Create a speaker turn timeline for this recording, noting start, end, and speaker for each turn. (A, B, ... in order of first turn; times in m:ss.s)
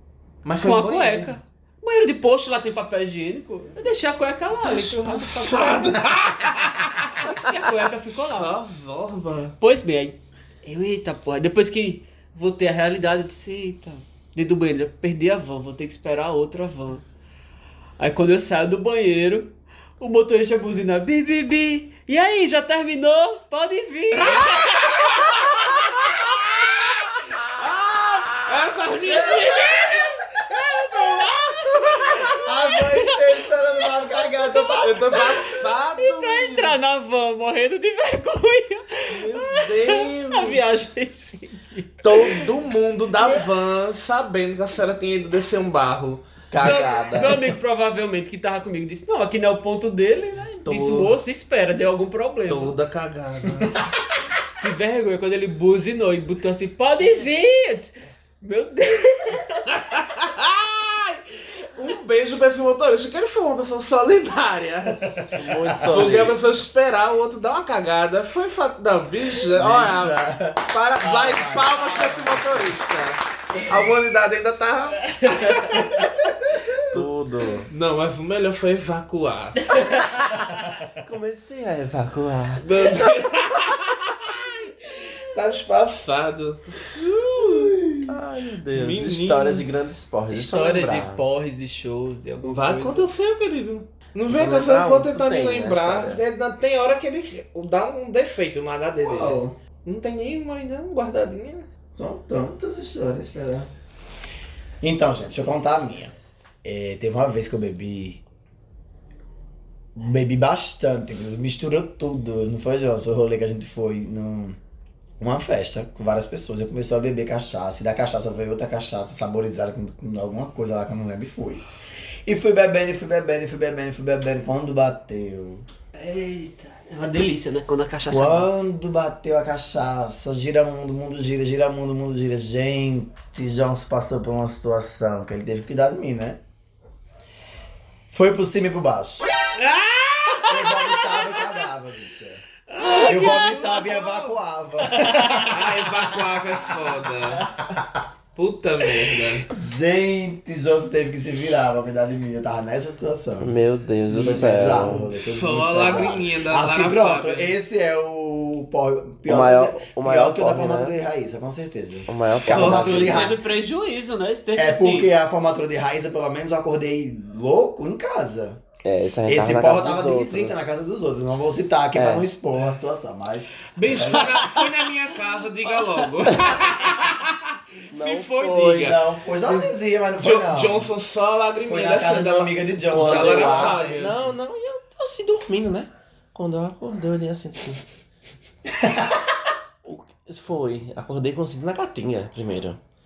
0:00.4-0:01.3 A
0:00.6-0:08.5 B
0:04.6-0:07.4 A
0:08.1-0:09.5 A
0:09.6-0:17.0 B
0:18.0-0:26.9 B
0:24.3-0:25.2 A
0:27.5-0:29.9 A
0:29.0-0:42.5 B
0:29.1-0:30.0 C
0:30.5-0:31.2 C
0:32.2-0:35.5 C
0:34.8-0:36.8 A
0:39.1-0:40.8 A
0:42.0-0:46.2 A
0:46.5-0:47.5 D
0:46.6-0:47.0 C
0:46.6-0:52.7 B
0:50.7-0:51.1 D
0:52.5-0:53.8 A
0:54.6-0:59.7 B
0:59.7-1:05.3 A
1:05.1-1:06.1 C
1:05.3-1:06.4 D
1:05.9-1:15.8 A
1:09.5-1:12.6 C
1:15.1-1:15.8 B
1:15.7-1:16.8 C
1:16.9-1:17.7 D
1:17.7-1:19.7 A
1:19.6-1:20.5 B
1:21.0-1:22.7 D
1:22.6-1:27.8 A
1:27.0-1:28.1 C
1:28.1-1:31.2 D
1:28.7-1:29.7 A
1:30.3-1:33.1 B
1:32.4-1:41.7 A
1:34.3-1:36.2 D
1:39.0-1:39.6 C
1:41.9-1:43.7 C
1:44.8-1:48.2 C
1:50.0-1:54.6 C
1:55.2-2:01.6 C
2:02.2-2:05.6 C
2:05.9-2:08.5 B
2:08.1-2:16.4 C
2:18.1-2:19.3 C
2:19.6-2:21.4 A
2:20.5-2:26.3 C
2:22.8-2:24.3 B
2:22.9-2:23.4 A
2:24.9-2:25.5 B
2:25.5-2:27.5 A
2:28.3-2:29.5 A
2:29.5-2:33.5 C
2:33.4-2:35.2 D
2:34.1-2:43.4 C
2:34.2-2:37.6 A
2:39.2-2:41.0 D
2:42.1-2:43.4 D
2:42.4-2:43.2 A
2:42.9-2:45.1 B
2:44.6-2:48.6 C
2:48.8-2:50.6 D
2:49.3-2:54.4 C
2:51.9-2:52.3 D
2:53.7-3:04.2 A
2:54.3-2:54.6 B
2:55.7-2:56.0 B
2:57.9-2:59.0 D
2:58.7-3:00.9 C
3:01.6-3:04.2 C
3:02.9-3:07.8 D
3:08.7-3:09.2 C
3:09.8-3:12.8 D